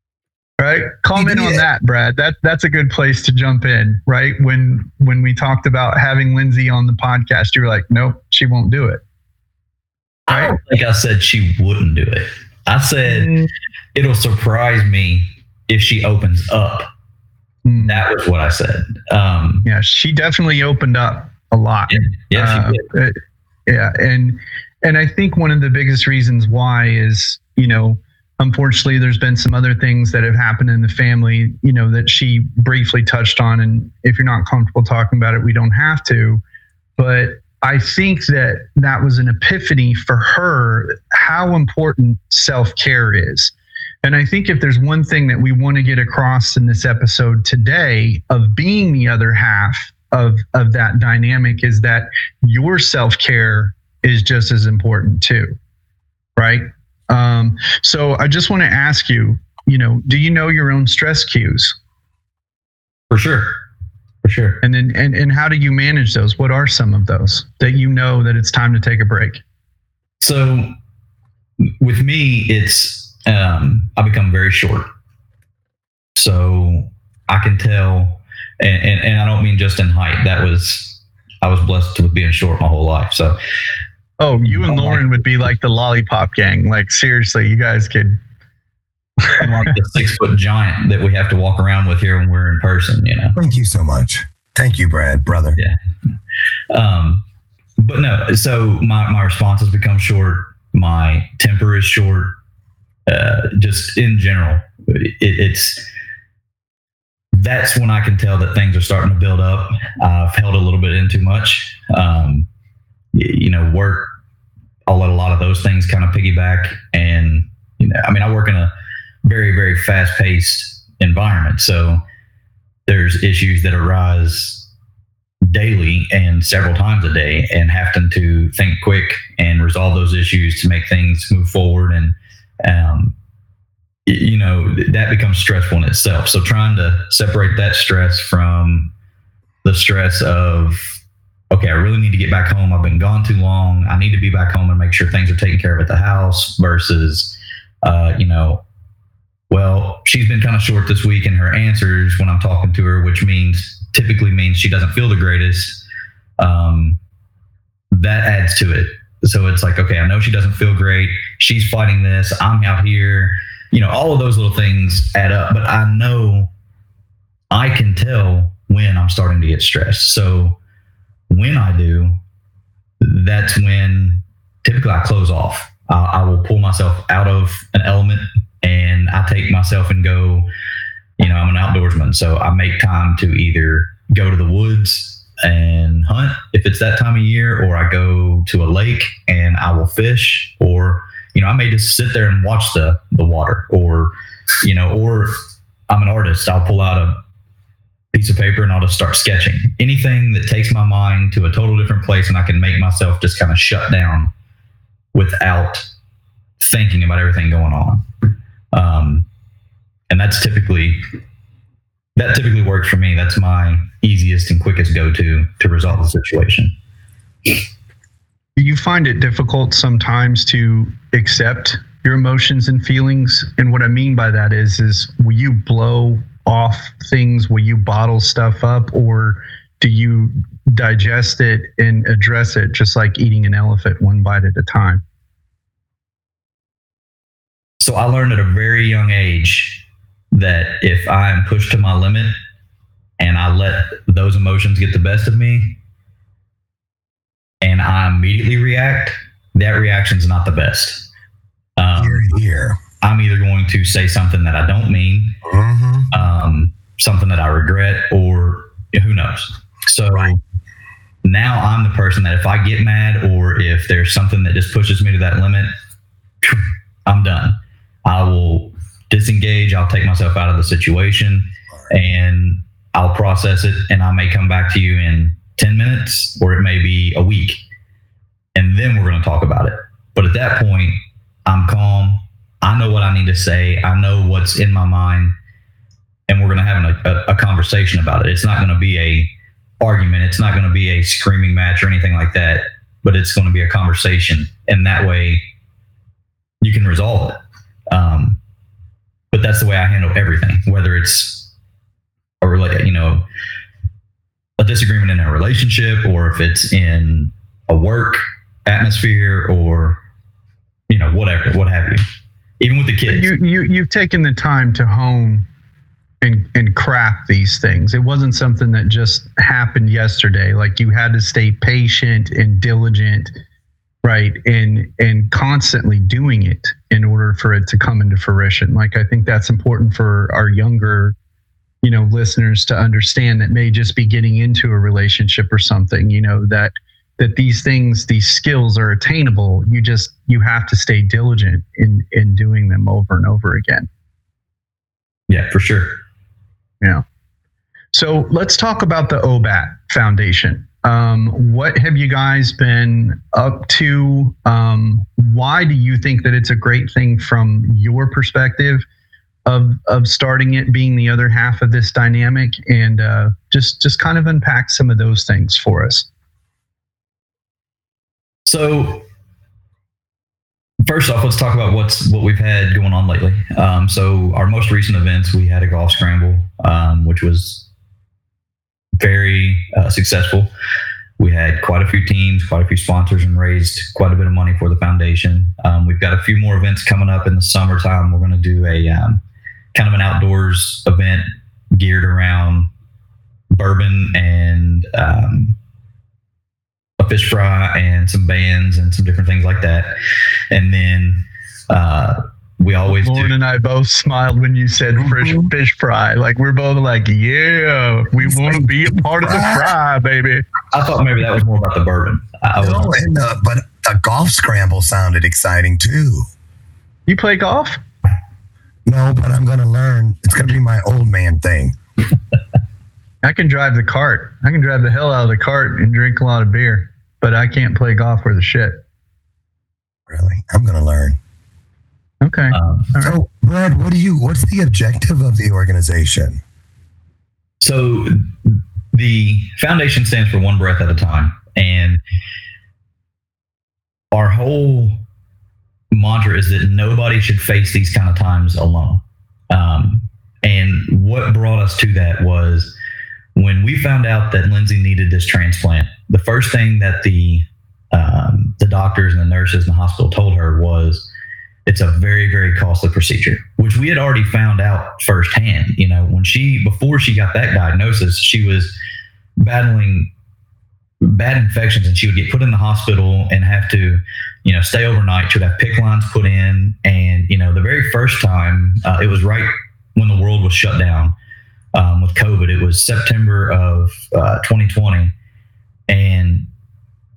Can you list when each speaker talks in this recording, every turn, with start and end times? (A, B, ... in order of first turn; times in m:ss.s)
0:00.6-0:09.0 A
0:01.1-0:01.6 B
0:10.3-0:13.3 C
0:10.3-0:10.6 A
0:13.0-0:13.5 A
0:13.9-0:16.9 C
0:17.6-0:18.0 A
0:17.8-0:19.6 C
0:19.6-0:36.4 A
0:21.9-0:22.9 C
0:37.0-0:55.5 A
0:56.4-1:01.8 A
1:03.1-1:03.5 C
1:04.2-1:04.6 C
1:04.6-1:09.4 A
1:10.2-1:10.7 C
1:11.8-1:14.9 C
1:16.2-1:23.4 C
1:24.2-1:28.2 A
1:24.6-1:25.0 C
1:29.3-1:33.4 C
1:33.4-1:35.6 B
1:36.7-1:37.2 C
1:37.8-1:42.3 C
1:43.1-1:45.9 C
1:47.3-1:52.5 C
1:53.1-1:54.1 C
1:54.8-1:58.7 C
1:59.2-2:02.0 C
2:02.9-2:04.6 C
2:05.4-2:13.1 C
2:14.0-2:18.9 C
2:19.6-2:20.9 C
2:21.5-2:28.6 C
2:29.5-2:35.8 C
2:36.4-2:37.0 C
2:37.9-2:46.5 C
2:47.5-2:50.6 C
2:51.3-2:52.2 C
2:53.0-3:00.5 C
3:01.2-3:15.3 C
3:15.9-3:17.2 C
3:18.1-3:24.3 C
3:25.1-3:25.8 C
3:26.6-3:28.0 C
3:28.7-3:29.2 C
3:30.1-3:31.0 C
3:32.2-3:36.7 C
3:38.6-3:55.0 A
3:57.8-4:02.3 C
4:03.2-4:05.8 C
4:07.6-4:11.1 C
4:11.8-4:12.2 C
4:12.0-4:12.8 B
4:13.0-4:15.4 C
4:15.4-4:16.1 B
4:16.1-4:20.4 C
4:21.2-4:25.7 C
4:26.4-4:37.6 C
4:38.5-4:45.3 C
4:46.3-4:55.4 C
4:56.6-4:57.4 C
4:57.9-4:58.4 C
4:59.3-5:01.5 C
5:02.4-5:03.2 C
5:04.6-5:10.0 C
5:10.9-5:12.0 C
5:12.6-5:13.3 C
5:13.1-5:15.4 A
5:16.2-5:23.3 A
5:24.0-5:31.1 A
5:31.8-5:43.9 A
5:45.3-5:46.0 C
5:47.9-5:58.8 A
5:59.4-6:06.1 A
6:08.4-6:09.0 C
6:10.8-6:17.6 C
6:19.0-6:20.5 C
6:21.2-6:29.2 C
6:29.7-6:32.7 C
6:33.5-6:35.6 C
6:37.0-6:39.9 C
6:40.5-6:43.3 C
6:42.9-6:50.4 A
6:45.0-6:45.5 B
6:48.2-6:49.7 B
6:50.7-6:52.9 C
6:52.6-6:56.2 B
6:57.1-6:57.8 A
6:58.8-7:01.8 B
7:03.2-7:08.8 A
7:10.1-7:11.2 B
7:12.2-7:13.2 A
7:12.5-7:12.9 C
7:13.0-7:16.4 B
7:17.6-7:22.0 C
7:24.1-7:25.0 C
7:25.9-7:32.7 C
7:33.3-7:41.1 C
7:41.6-7:48.7 C
7:49.4-7:50.1 C
7:51.0-8:01.1 C
8:01.7-8:05.1 C
8:05.9-8:06.5 C